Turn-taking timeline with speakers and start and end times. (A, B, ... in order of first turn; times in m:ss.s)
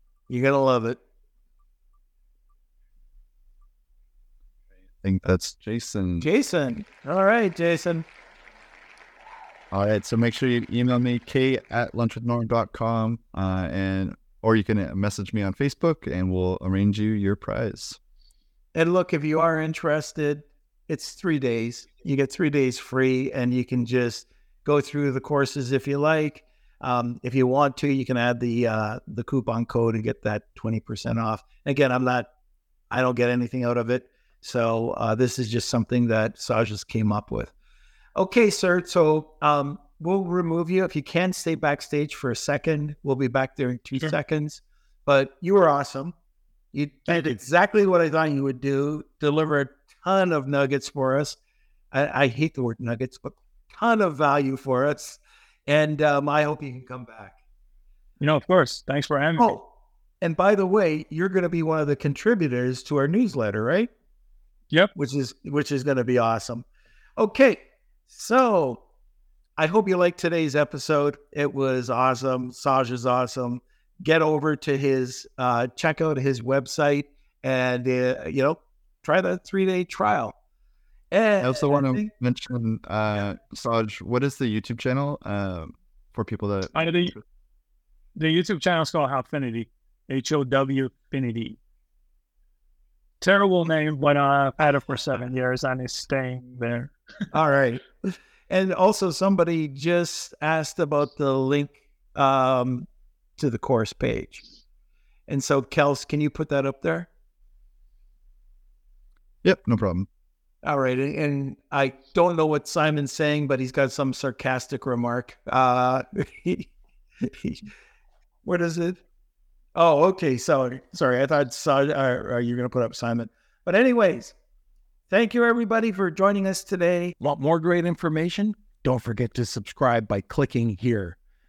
0:00.3-0:01.0 A
0:05.0-0:06.2 B
0:06.2-0:08.0 A
0:09.7-0:18.0 B
0:18.7-0:32.3 A
0:32.9-0:37.5 A
0:38.2-0:46.1 A
0:46.7-0:51.4 A
0:47.1-0:47.4 C
0:51.9-0:57.4 A
0:58.2-0:59.6 C
0:59.4-0:59.7 A
1:00.2-1:03.9 A
1:04.9-1:06.6 A
1:07.2-1:08.8 A
1:09.6-1:20.3 A
1:21.1-1:22.1 A
1:21.4-1:27.2 B
1:26.7-1:27.1 C
1:28.2-1:31.6 C
1:33.2-1:36.9 C
1:37.3-1:44.4 A
1:45.3-1:47.1 A
1:49.4-1:50.1 B
1:50.6-1:57.7 A
1:58.4-1:59.0 A
1:59.8-2:04.3 A
2:05.1-2:11.2 A